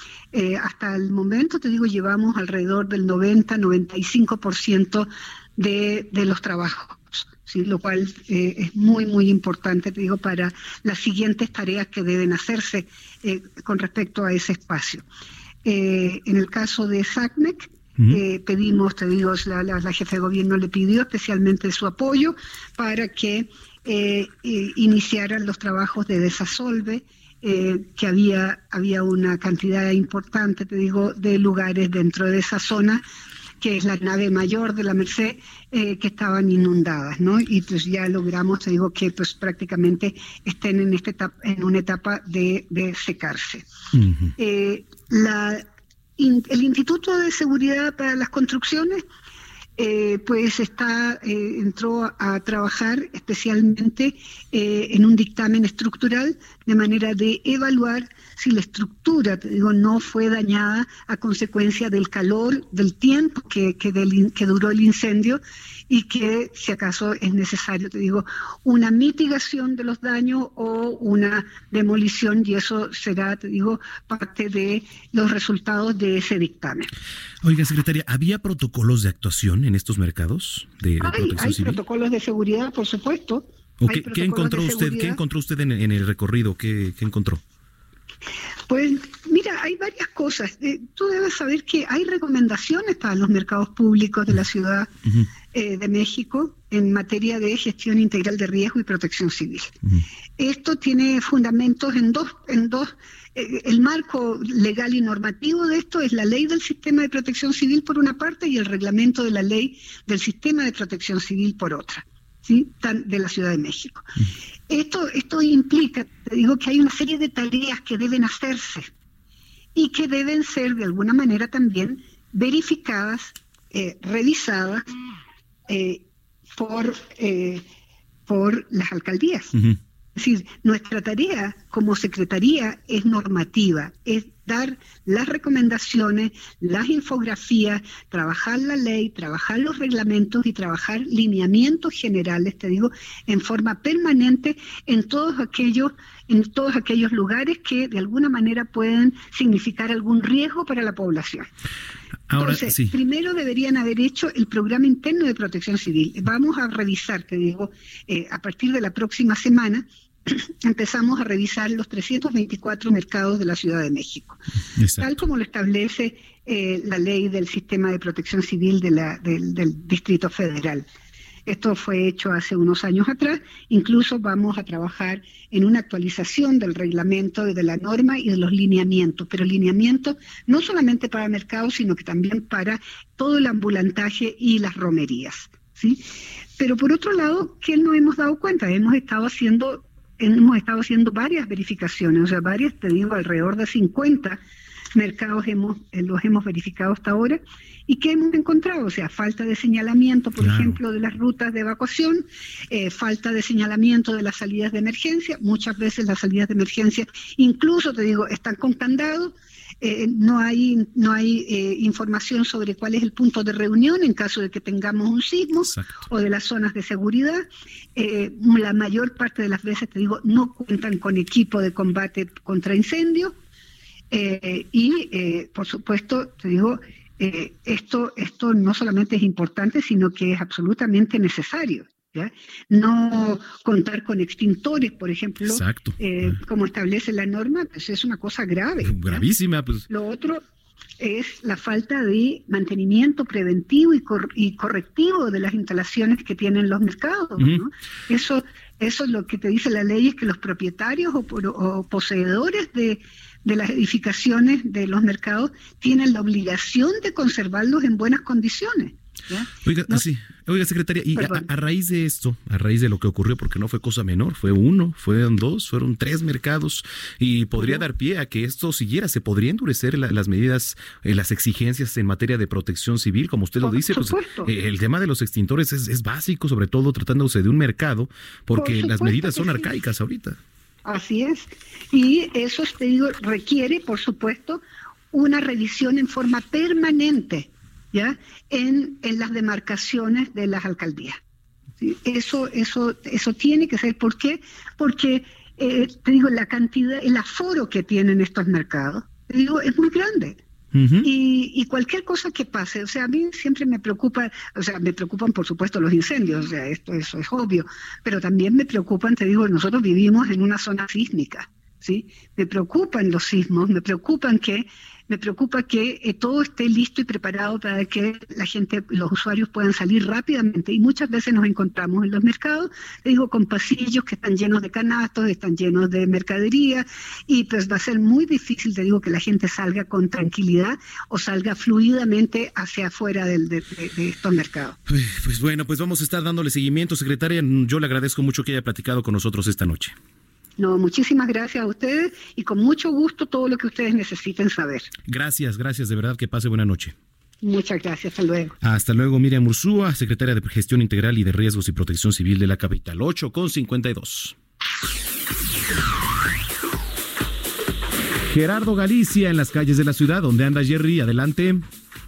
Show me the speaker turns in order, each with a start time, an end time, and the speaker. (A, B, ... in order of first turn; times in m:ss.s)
0:00.3-0:15.0 A
0:15.6-0:33.0 A
0:33.6-0:43.6 A
0:43.9-0:44.3 B
0:44.4-0:45.6 A
0:46.2-0:49.0 A
0:49.8-1:16.9 A
1:17.4-1:21.8 B
1:21.0-1:25.2 A
1:23.8-1:27.4 B
1:28.7-1:34.9 A
1:35.5-1:39.7 A
1:40.4-1:54.1 A
1:54.7-1:58.9 A
1:59.8-2:04.8 A
2:05.7-2:06.0 A
2:06.6-2:07.6 A
2:08.3-2:09.6 A
2:10.2-2:31.5 A
2:32.3-2:32.9 B
2:32.3-2:44.4 A
2:44.8-2:45.2 B
2:45.0-2:50.8 A
2:51.5-3:06.0 A
3:06.6-3:14.4 A
3:15.0-3:43.3 A
3:20.4-3:20.8 B
3:35.6-3:36.0 B
3:44.1-3:59.2 A
3:55.5-3:56.0 B
3:58.8-3:59.9 B
3:59.9-4:00.4 A
4:01.0-4:20.0 A
4:19.6-4:40.4 B
4:21.2-4:21.5 A
4:27.6-4:27.8 A
4:33.6-4:34.5 A
4:38.6-4:39.8 A
4:40.8-4:51.2 A
4:51.8-5:00.4 A
5:00.7-5:01.1 B
5:01.0-5:34.8 A
5:34.9-5:40.0 B
5:40.6-5:44.9 A
5:45.1-5:47.0 B
5:47.4-5:48.6 A
5:48.6-5:54.4 B
5:58.2-6:01.7 B